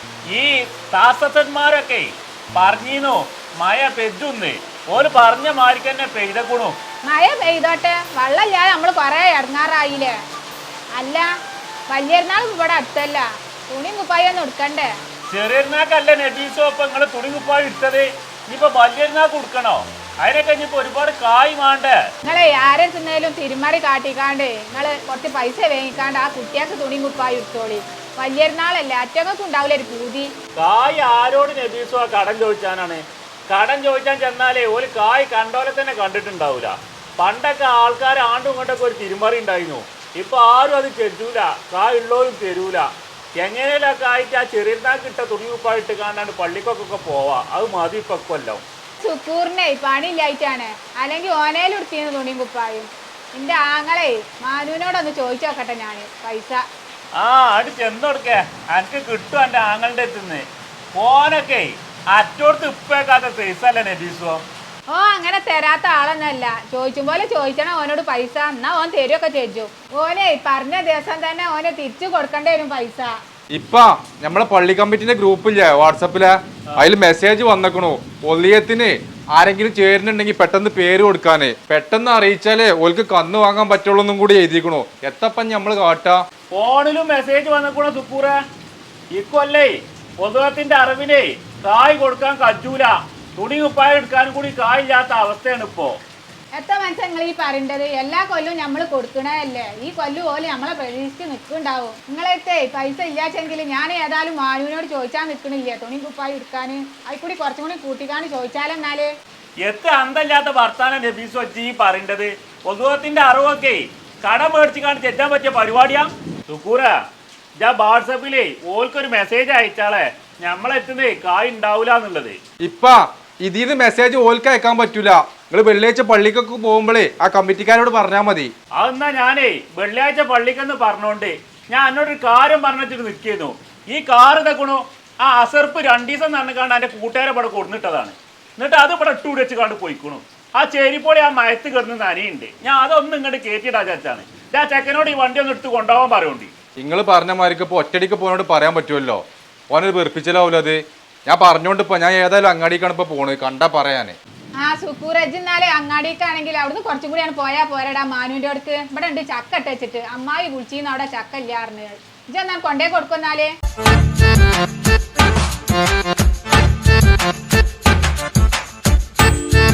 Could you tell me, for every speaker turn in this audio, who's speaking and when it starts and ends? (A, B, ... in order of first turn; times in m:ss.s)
0:00.3-0:06.8 A
0:07.0-0:10.2 B
0:10.9-0:11.3 B
0:11.9-0:14.9 B
0:15.3-0:22.0 A
0:22.2-0:30.3 B
0:30.6-0:42.8 A
0:43.4-0:48.6 A
0:49.0-0:56.6 B
0:57.1-1:04.4 A
1:04.9-1:13.1 B
1:13.5-1:26.2 C
1:26.5-1:28.3 A
1:29.1-1:36.0 A
1:36.5-1:49.1 B
1:49.6-1:56.9 A
1:57.6-2:02.4 A
2:02.6-2:08.5 C
2:08.8-2:26.5 A
2:26.8-2:34.2 C
2:34.6-2:43.5 B